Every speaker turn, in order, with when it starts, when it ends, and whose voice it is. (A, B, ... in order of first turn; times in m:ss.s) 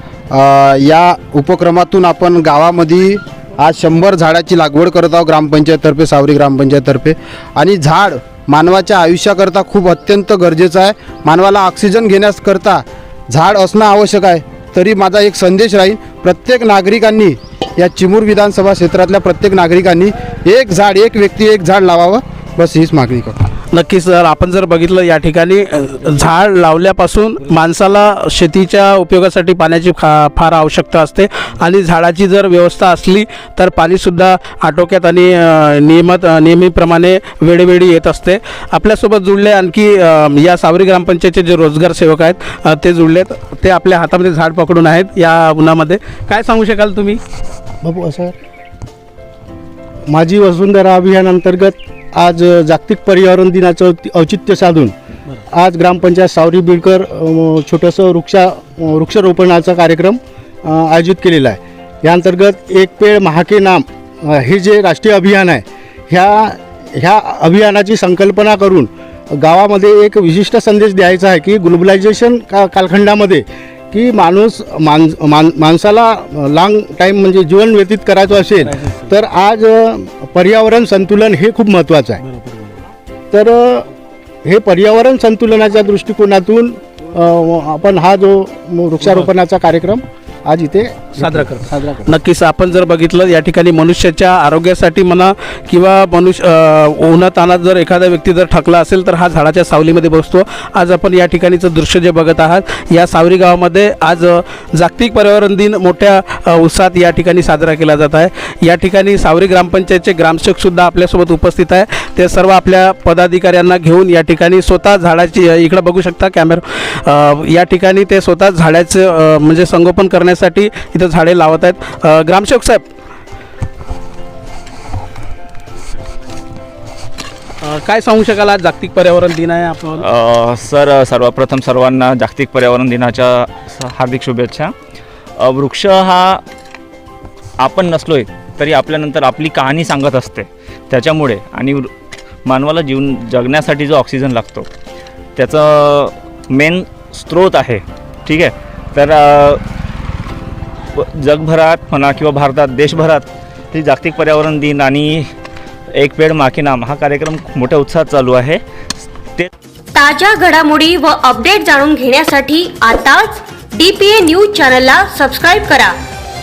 0:00.3-0:23.4 A
0:23.7-0:47.2 B
0:47.8-0:48.3 C
0:50.1-0:54.9 C
0:55.5-1:22.2 C
1:18.6-1:19.1 B
1:22.2-1:22.8 B
1:23.3-1:23.9 C
1:24.4-1:32.1 C
1:31.2-2:02.8 B
2:07.6-2:10.0 B
2:10.0-2:14.7 D
2:15.4-2:16.4 D
2:17.6-2:21.9 D
2:22.4-2:24.7 D
2:25.4-2:29.6 D
2:30.9-2:35.3 D
2:35.9-2:39.5 D
2:39.9-2:45.9 E